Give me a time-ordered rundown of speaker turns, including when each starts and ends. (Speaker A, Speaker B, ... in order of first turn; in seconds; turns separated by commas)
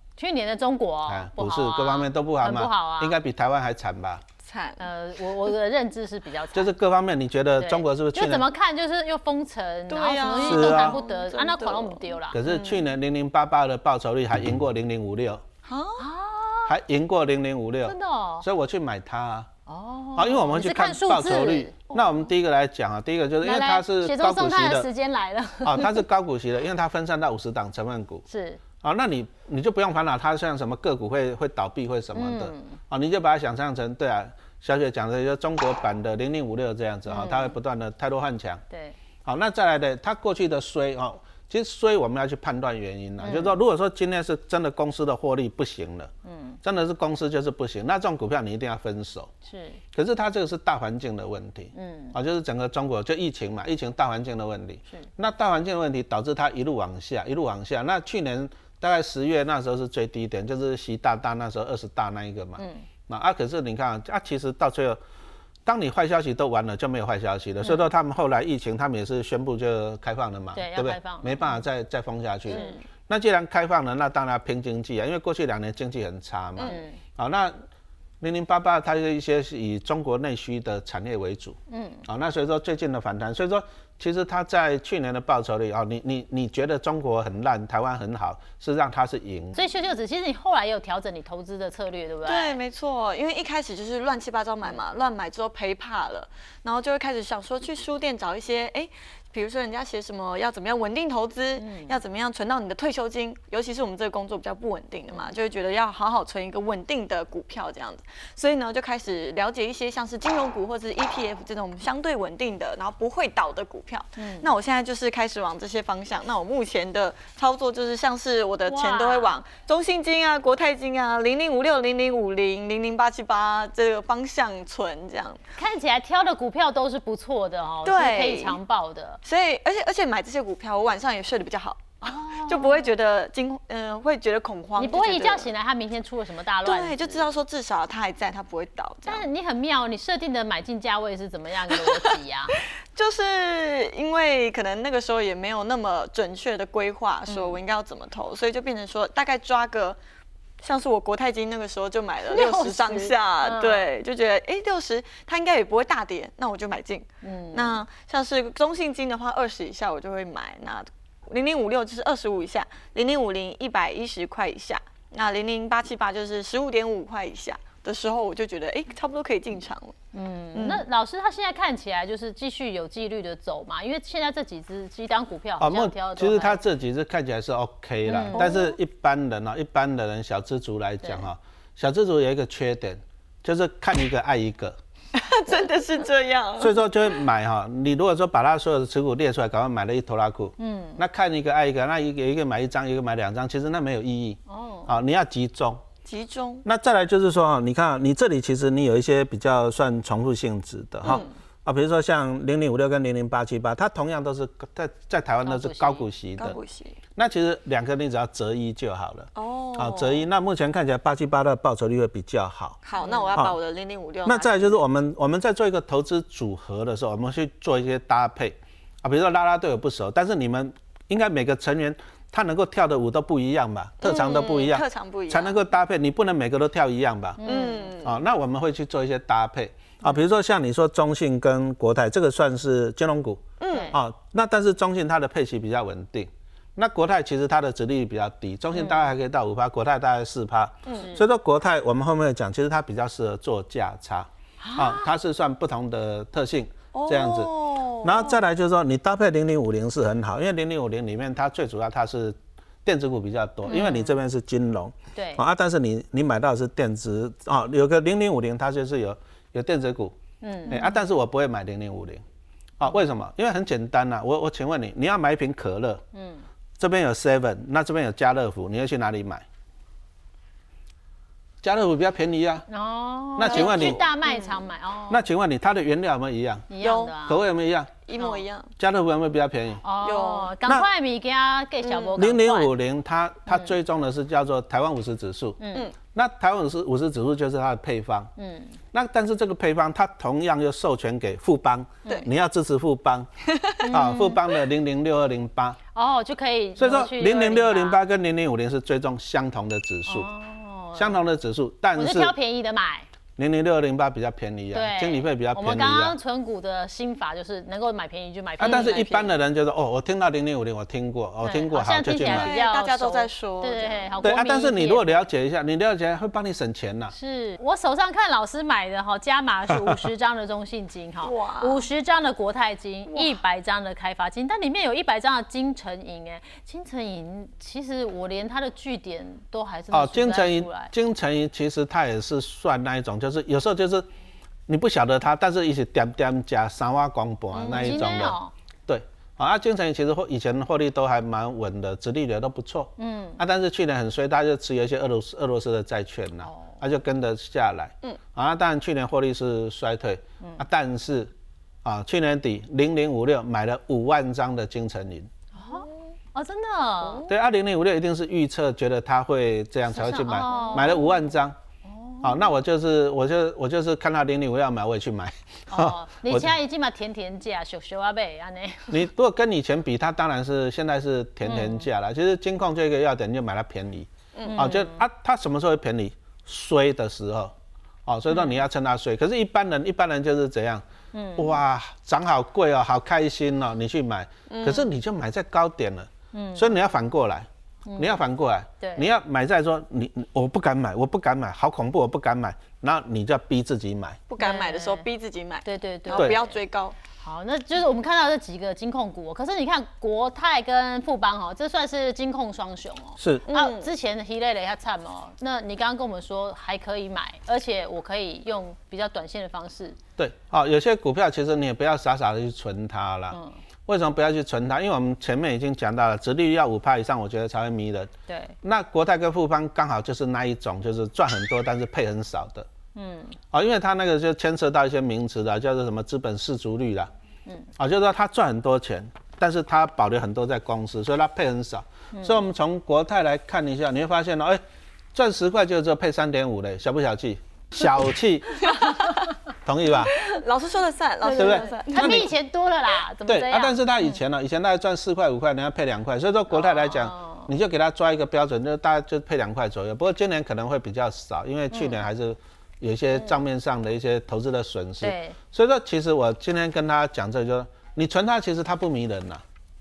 Speaker A: 0.2-3.2, Speaker B: 1.1-4.2, Speaker C: 4.4-4.8, Speaker A: 4.8-6.7, Speaker B: 6.5-8.4, Speaker A: 7.6-12.4, Speaker C: 9.9-12.8, Speaker B: 10.4-11.0, Speaker B: 12.3-15.4, Speaker C: 15.6-16.1, Speaker A: 16.0-16.7, Speaker B: 16.7-19.5, Speaker A: 17.8-18.4, Speaker A: 19.6-21.8, Speaker B: 20.1-24.9, Speaker A: 23.4-26.0, Speaker B: 25.6-28.2, Speaker A: 28.3-28.6, Speaker B: 28.8-38.6, Speaker A: 32.1-32.8, Speaker A: 37.1-37.5, Speaker A: 38.7-39.0, Speaker B: 39.2-46.1, Speaker A: 43.2-43.5, Speaker A: 46.2-46.6, Speaker B: 46.6-49.3, Speaker A: 49.4-49.8, Speaker B: 49.9-65.0, Speaker A: 51.7-52.1, Speaker A: 62.6-62.8, Speaker B: 65.6-77.5, Speaker A: 70.5-71.5, Speaker A: 72.5-72.8, Speaker C: 72.5-72.7, Speaker A: 76.6-77.0, Speaker B: 78.2-89.6, Speaker A: 81.7-82.0, Speaker A: 89.5-92.6, Speaker C: 92.2-125.4, Speaker A: 101.6-102.0, Speaker A: 114.2-114.5, Speaker A: 118.7-119.3, Speaker A: 125.5-129.2, Speaker C: 127.8-128.6, Speaker C: 129.2-135.5, Speaker A: 132.0-132.9, Speaker A: 134.8-137.3, Speaker C: 136.6-139.3, Speaker A: 139.1-142.6, Speaker C: 141.7-142.1, Speaker C: 142.9-150.0, Speaker A: 147.3-147.6, Speaker C: 150.6-169.9, Speaker A: 152.3-153.8, Speaker A: 157.2-157.8, Speaker A: 170.1-176.6, Speaker C: 170.5-170.8, Speaker B: 175.6-184.8, Speaker A: 178.1-178.5, Speaker C: 178.3-178.7, Speaker C: 185.1-186.8, Speaker B: 186.6-195.8, Speaker A: 190.6-191.0, Speaker A: 194.5-194.9, Speaker C: 196.0-196.6, Speaker B: 196.6-206.6, Speaker C: 201.0-201.3, Speaker A: 205.4-206.0, Speaker C: 206.4-207.0, Speaker B: 207.2-212.8, Speaker C: 209.3-210.2, Speaker C: 212.8-214.8, Speaker A: 213.0-213.4, Speaker B: 214.2-227.4, Speaker C: 224.0-225.6, Speaker A: 227.4-227.9, Speaker C: 227.4-228.2, Speaker B: 228.0-247.5, Speaker C: 233.6-233.9, Speaker A: 233.7-233.9, Speaker A: 238.7-239.1, Speaker C: 240.8-241.1, Speaker A: 240.9-241.2, Speaker A: 244.6-245.1, Speaker C: 246.9-248.4, Speaker B: 248.0-260.1, Speaker A: 253.7-254.2, Speaker A: 255.1-255.4, Speaker A: 260.4-260.9, Speaker B: 260.7-262.2, Speaker B: 262.8-266.0, Speaker A: 266.1-266.4, Speaker B: 266.8-269.4, Speaker B: 271.6-272.6, Speaker A: 272.7-275.2, Speaker B: 273.4-274.0, Speaker C: 273.4-274.7, Speaker B: 275.1-276.7, Speaker A: 276.7-277.4, Speaker C: 276.8-277.2, Speaker B: 277.2-278.0, Speaker C: 278.1-278.7, Speaker A: 278.2-278.4, Speaker B: 278.8-279.8, Speaker A: 279.8-282.7, Speaker C: 280.0-280.5, Speaker C: 281.8-282.2, Speaker B: 282.1-285.6, Speaker A: 283.5-283.7, Speaker A: 285.6-285.9, Speaker B: 286.1-288.3, Speaker A: 288.4-288.8, Speaker B: 288.9-293.3, Speaker C: 293.5-293.9, Speaker A: 293.8-294.4, Speaker B: 293.9-295.8, Speaker A: 295.9-298.0, Speaker B: 296.8-300.3, Speaker A: 300.1-301.2, Speaker B: 300.9-302.3, Speaker A: 301.9-303.1, Speaker B: 303.4-306.2, Speaker A: 304.7-309.3, Speaker B: 308.6-312.5, Speaker C: 308.6-309.3, Speaker A: 311.4-315.2, Speaker C: 312.2-314.2, Speaker B: 314.2-317.1, Speaker A: 317.1-330.9, Speaker C: 321.2-321.9, Speaker C: 323.1-323.4, Speaker B: 329.9-334.1, Speaker B: 334.7-351.3, Speaker C: 337.5-338.0, Speaker A: 337.6-338.5, Speaker A: 343.0-343.4, Speaker A: 346.4-346.8, Speaker B: 351.8-355.3, Speaker A: 355.5-357.2, Speaker C: 355.6-356.1, Speaker C: 357.0-357.3, Speaker B: 357.3-361.6, Speaker A: 359.9-361.1, Speaker C: 360.5-361.1, Speaker A: 361.8-362.5, Speaker B: 362.2-366.5, Speaker A: 365.7-369.0, Speaker B: 368.9-377.5, Speaker A: 371.4-371.9, Speaker C: 374.3-374.7, Speaker A: 374.4-375.0, Speaker B: 378.1-380.8, Speaker A: 381.1-381.6, Speaker B: 381.4-394.2, Speaker C: 384.5-384.9, Speaker A: 386.3-386.7, Speaker A: 387.9-388.2, Speaker A: 388.8-389.1, Speaker C: 394.3-396.9, Speaker A: 394.4-395.1, Speaker A: 395.6-396.6, Speaker A: 397.2-410.0, Speaker B: 403.2-403.4, Speaker C: 403.5-403.9, Speaker B: 410.2-418.1, Speaker A: 418.3-418.5, Speaker B: 418.6-422.7, Speaker A: 422.9-423.4, Speaker B: 423.5-427.1, Speaker B: 427.8-434.6, Speaker A: 432.1-432.4, Speaker B: 435.1-438.9, Speaker C: 438.6-439.2, Speaker B: 439.6-440.1, Speaker C: 440.1-442.2, Speaker A: 441.2-444.2, Speaker B: 441.4-442.3, Speaker B: 443.3-459.4, Speaker A: 446.5-447.5, Speaker A: 451.7-452.0, Speaker A: 453.1-453.4, Speaker A: 455.0-455.4